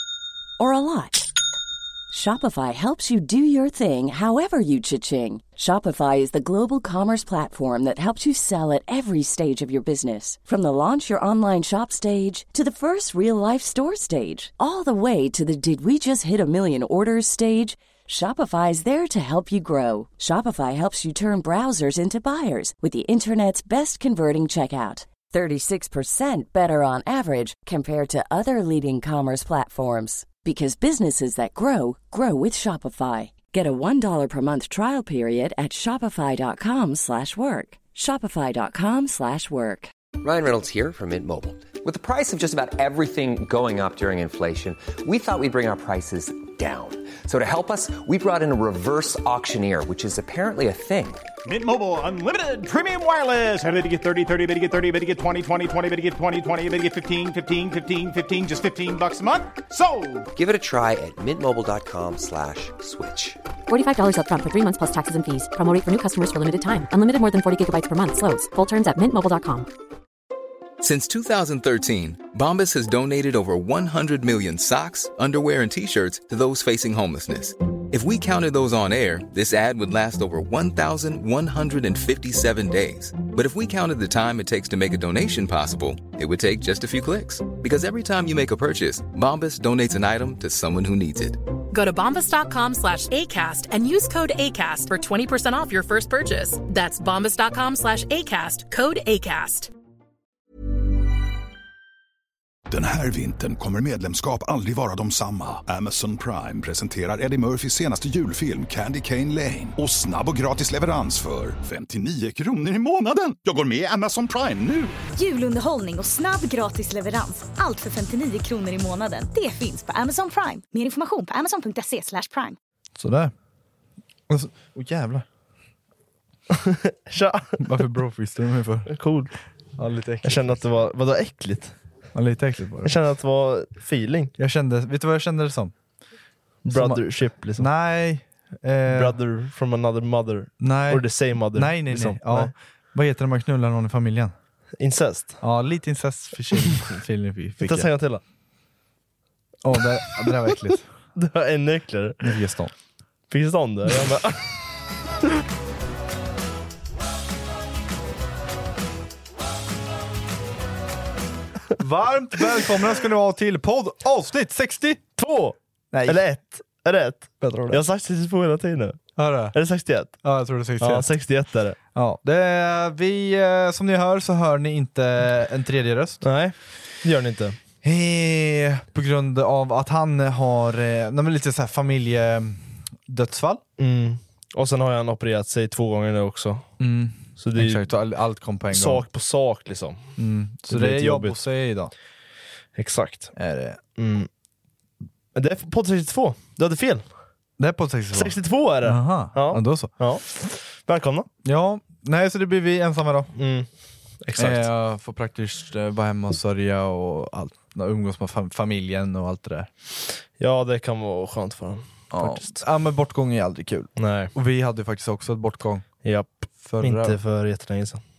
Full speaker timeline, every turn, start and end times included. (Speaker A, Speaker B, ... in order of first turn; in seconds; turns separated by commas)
Speaker A: 0.6-1.3, Speaker A: 2.1-39.9, Speaker B: 40.2-51.3, Speaker C: 51.4-60.3, Speaker B: 60.3-63.4, Speaker D: 63.7-69.7, Speaker E: 70.8-91.4, Speaker F: 91.7-99.7, Speaker G: 102.7-115.0, Speaker H: 115.1-122.6, Speaker I: 123.0-123.3, Speaker I: 124.3-125.2, Speaker J: 126.5-127.6, Speaker I: 127.6-128.9, Speaker J: 128.9-129.3, Speaker I: 129.8-130.6, Speaker J: 130.2-131.7, Speaker I: 132.1-132.9, Speaker J: 132.8-134.3, Speaker I: 134.4-135.7, Speaker J: 136.6-137.7, Speaker I: 136.7-137.0, Speaker I: 137.6-139.2, Speaker J: 138.9-142.5, Speaker I: 140.6-144.3, Speaker J: 144.8-145.4, Speaker I: 145.4-147.9, Speaker J: 147.6-148.2, Speaker I: 149.6-150.8, Speaker J: 149.8-150.6, Speaker J: 151.2-152.2, Speaker I: 152.2-152.7, Speaker J: 153.3-154.5, Speaker I: 161.8-165.0, Speaker J: 165.2-169.0, Speaker I: 165.9-166.2, Speaker I: 167.4-167.8, Speaker I: 169.2-169.6, Speaker J: 169.5-170.1, Speaker I: 170.2-171.1, Speaker J: 170.8-171.8, Speaker I: 171.9-176.2, Speaker J: 176.2-177.6, Speaker I: 177.8-183.6, Speaker J: 183.8-186.7, Speaker I: 186.8-189.0, Speaker J: 187.4-187.8, Speaker J: 188.7-190.1, Speaker I: 190.2-191.9, Speaker J: 190.7-191.4, Speaker J: 192.7-193.3, Speaker I: 193.3-193.8, Speaker J: 194.0-194.3, Speaker J: 195.3-197.1, Speaker I: 197.6-199.9, Speaker J: 198.1-201.3, Speaker I: 201.4-203.3, Speaker J: 203.4-203.7, Speaker J: 204.2-204.7, Speaker I: 204.3-209.7, Speaker J: 210.4-212.6, Speaker I: 212.1-215.9, Speaker J: 214.0-214.3, Speaker J: 216.0-218.0, Speaker I: 216.6-217.2